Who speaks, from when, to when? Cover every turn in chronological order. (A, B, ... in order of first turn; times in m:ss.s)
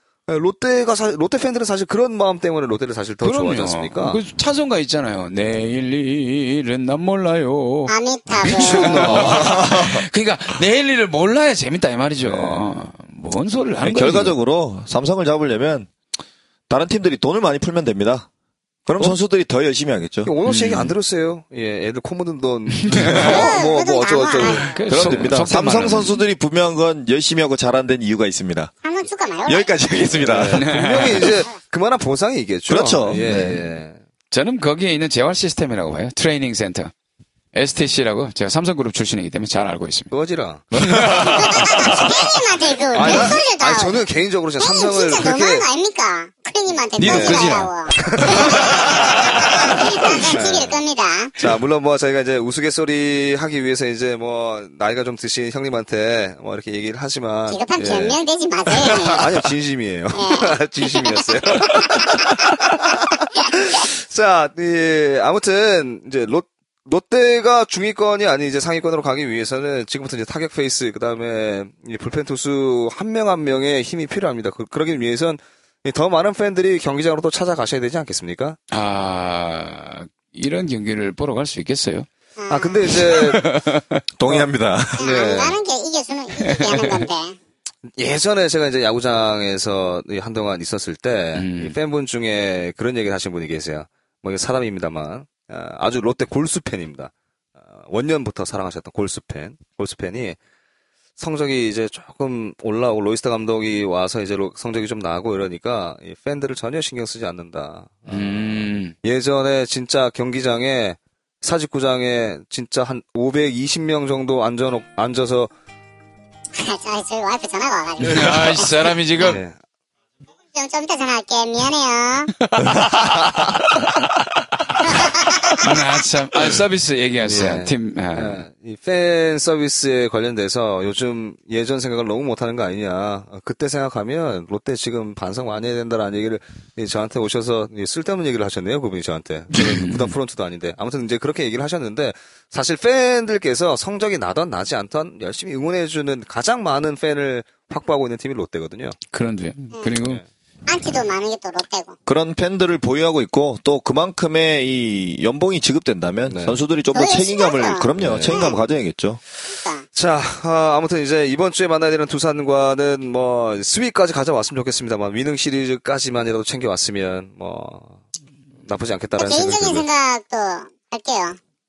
0:00.3-0:04.2 A
0:03.2-0:14.3 B
0:07.9-0:09.1 C
0:08.5-0:09.5 A
0:08.8-0:10.0 D
0:12.2-0:12.6 A
0:13.8-0:15.9 D
0:16.7-0:18.3 D
0:18.8-0:20.3 D
0:20.2-0:25.4 A
0:20.4-0:20.9 B
0:22.7-0:23.6 B
0:23.2-0:24.8 C
0:24.4-0:26.2 B
0:24.9-0:28.7 D
0:28.8-0:29.9 C
0:29.4-0:30.7 D
0:30.2-0:34.0 A
0:30.5-0:31.3 B
0:32.7-0:33.6 D
0:34.3-0:36.9 B
0:37.5-0:40.1 B
0:40.1-0:41.2 A
0:40.8-0:41.2 D
0:40.8-0:41.9 B
0:41.2-0:44.0 C
0:42.9-0:45.6 A
0:44.6-0:51.3 C
0:47.0-0:49.4 B
0:47.0-0:50.8 A
0:51.4-0:58.2 A
0:57.5-0:59.3 C
0:58.8-1:18.6 A
1:00.1-1:02.5 C
1:18.7-1:22.1 B
1:22.4-1:23.1 C
1:22.5-1:23.4 A
1:22.9-1:24.0 B
1:24.2-1:25.1 D
1:25.0-1:25.6 A
1:25.0-1:27.4 C
1:26.4-1:27.1 B
1:27.9-1:37.1 A
1:31.3-1:31.8 B
1:37.7-1:40.4 A
1:41.2-1:55.5 A
1:48.1-1:48.9 B
1:56.5-1:58.4 C
1:58.0-1:59.4 B
1:58.0-1:59.5 A
2:00.5-2:02.3 C
2:02.4-2:03.9 B
2:04.7-2:08.4 B
2:04.8-2:05.6 C
2:07.2-2:29.0 A
2:19.5-2:20.1 B
2:29.1-2:30.2 B
2:30.7-2:32.0 C
2:32.1-2:39.2 D
2:36.3-2:36.6 A
2:36.9-2:38.6 C
2:38.0-2:38.4 B
2:39.4-2:39.8 C
2:39.9-2:48.0 A
2:48.6-2:49.8 A
2:49.2-2:51.4 C